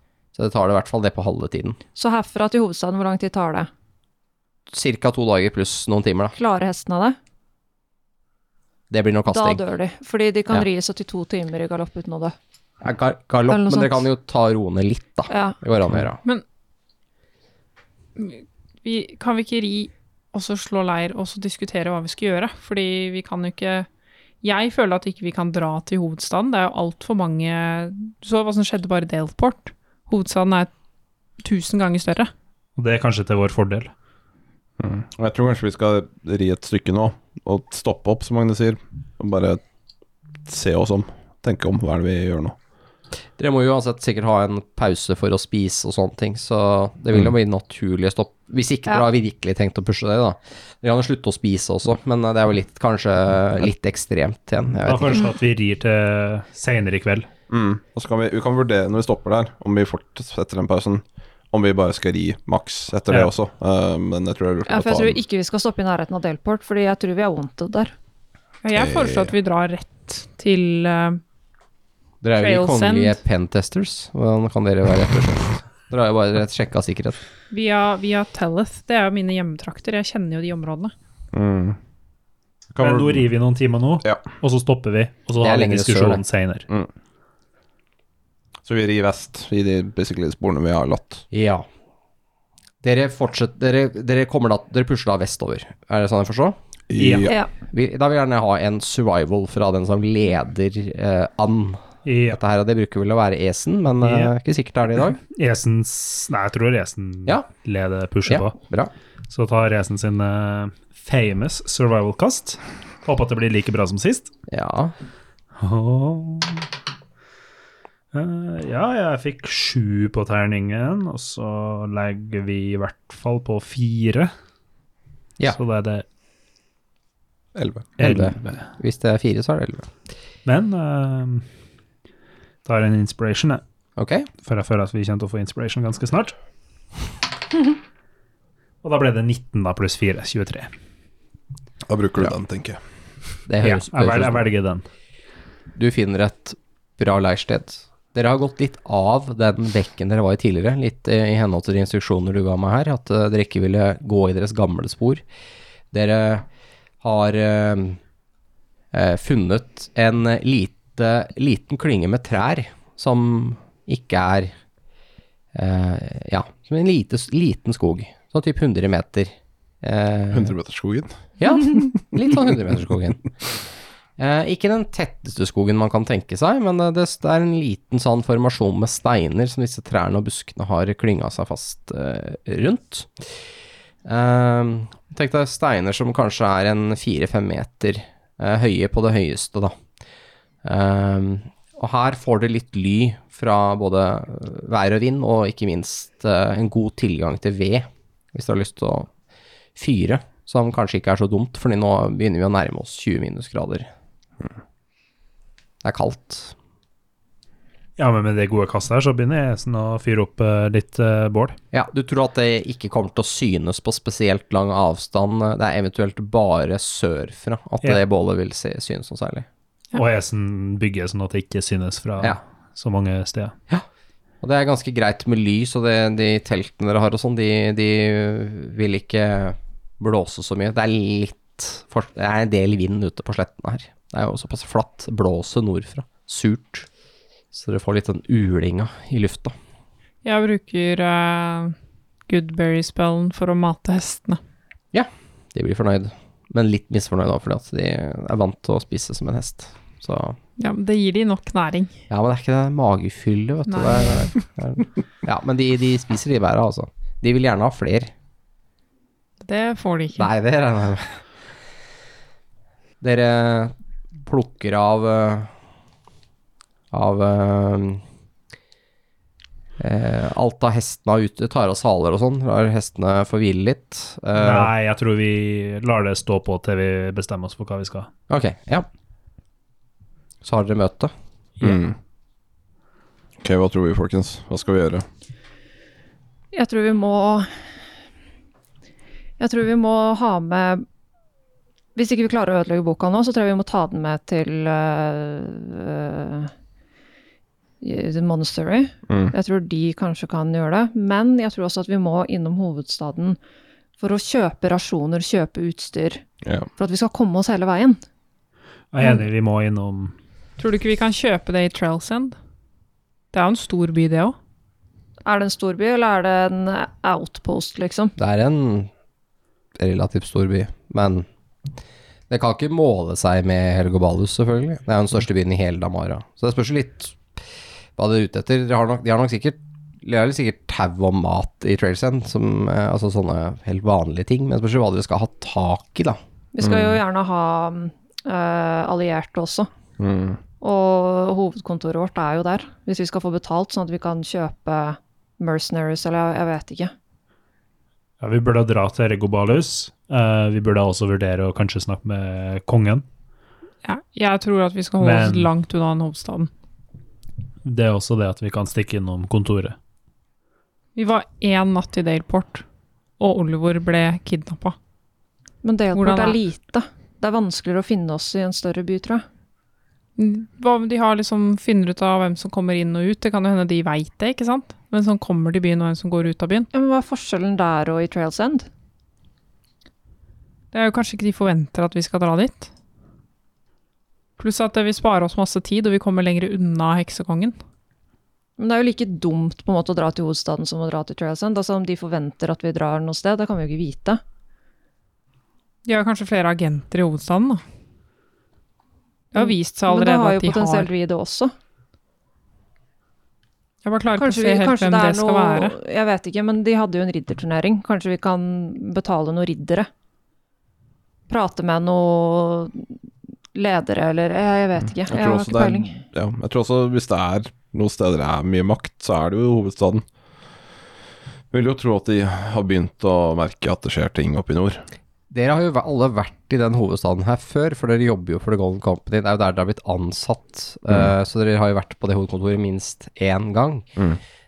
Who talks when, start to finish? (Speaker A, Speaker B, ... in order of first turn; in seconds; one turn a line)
Speaker A: 0.3-1.8
Speaker B: 1.9-3.7
Speaker A: 4.7-6.3
Speaker B: 6.3-7.2
Speaker A: 8.9-9.6
Speaker B: 9.3-12.3
Speaker A: 12.8-16.2
Speaker B: 13.5-14.0
Speaker B: 15.3-15.6
Speaker C: 18.1-23.9
Speaker C: 24.4-30.7
Speaker C: 31.4-32.3
Speaker D: 32.8-33.9
Speaker E: 34.8-39.6
Speaker E: 40.4-42.5
Speaker A: 43.4-55.3
Speaker D: 54.8-57.3
Speaker E: 57.5-65.2
Speaker B: 64.7-67.9
Speaker C: 68.6-71.2
Speaker E: 68.7-69.3
Speaker A: 72.2-77.2
Speaker C: 72.4-73.2
Speaker C: 77.5-80.9
Speaker E: 81.3-81.8
Speaker E: 82.7-83.2
Speaker D: 82.8-86.7
Speaker A: 85.4-86.2
Speaker E: 88.6-91.2
Speaker A: 91.3-91.7
Speaker A: 92.8-96.6
Speaker E: 96.9-97.3
Speaker D: 97.0-97.3
Speaker A: 97.7-105.2
Speaker D: 102.0-102.4
Speaker D: 104.0-104.3
Speaker D: 105.3-108.5
Speaker A: 108.2-108.9
Speaker D: 109.3-114.3
Speaker A: 114.5-114.9
Speaker D: 115.6-116.7
Speaker D: 118.1-124.3
Speaker D: 125.4-126.0
Speaker E: 127.5-128.0
Speaker D: 128.0-128.3
Speaker A: 128.0-129.9
Speaker D: 130.4-131.4
Speaker D: 132.6-133.6
Speaker A: 134.0-134.3
Speaker D: 134.4-136.3
Speaker D: 138.8-140.7
Speaker E: 141.8-142.8
Speaker A: 143.5-144.4
Speaker D: 143.6-144.8
Speaker A: 145.7-155.2
Speaker A: 155.9-156.4
Speaker A: 157.0-158.0
Speaker A: 158.9-164.5
Speaker A: 165.5-170.5
Speaker E: 170.3-171.3
Speaker A: 171.4-173.2
Speaker A: 174.2-183.3
Speaker A: 184.0-189.7
Speaker A: 190.6-199.1
Speaker A: 199.8-203.9
Speaker A: 205.8-206.5
Speaker D: 208.0-211.6
Speaker A: 211.7-219.4
Speaker D: 219.9-223.5
Speaker A: 224.4-236.9
Speaker A: 237.5-239.5
Speaker C: 240.2-241.7
Speaker C: 242.3-244.4
Speaker A: 244.9-250.4
Speaker C: 250.6-252.0
Speaker A: 252.1-258.1
Speaker C: 253.7-254.3
Speaker C: 259.4-260.3
Speaker A: 260.2-261.2
Speaker A: 263.0-265.5
Speaker A: 266.9-268.0
Speaker A: 269.8-274.7
Speaker D: 274.4-278.1
Speaker A: 278.3-278.9
Speaker A: 280.4-281.1
Speaker E: 281.6-281.9
Speaker E: 283.4-285.0
Speaker B: 286.5-287.5
Speaker B: 289.4-290.8
Speaker B: 291.9-296.5
Speaker B: 297.8-303.4
Speaker E: 299.1-299.3
Speaker B: 304.0-306.2
Speaker E: 306.4-306.7
Speaker B: 306.8-308.0
Speaker D: 308.9-310.1
Speaker C: 310.6-312.3
Speaker C: 313.3-314.3
Speaker B: 315.2-318.1
Speaker A: 318.2-318.9
Speaker A: 319.8-321.2
Speaker A: 322.3-327.2
Speaker A: 328.0-336.2
Speaker B: 336.5-339.7
Speaker E: 336.6-337.0
Speaker E: 340.0-340.4
Speaker B: 340.6-346.9
Speaker D: 348.2-353.0
Speaker C: 353.8-356.5
Speaker D: 355.0-355.5
Speaker D: 357.6-359.8
Speaker C: 360.9-362.6
Speaker C: 363.2-364.8
Speaker B: 365.6-369.2
Speaker C: 365.9-366.4
Speaker C: 370.2-376.7
Speaker B: 376.7-378.7
Speaker C: 380.7-382.7
Speaker C: 384.4-387.6
Speaker B: 388.6-394.2
Speaker C: 395.9-397.6
Speaker C: 399.3-400.9
Speaker B: 399.4-401.5
Speaker C: 403.8-405.8
Speaker B: 404.1-409.9
Speaker B: 411.3-412.9
Speaker B: 413.5-416.0
Speaker E: 415.1-420.0
Speaker E: 421.5-424.8
Speaker A: 425.3-433.9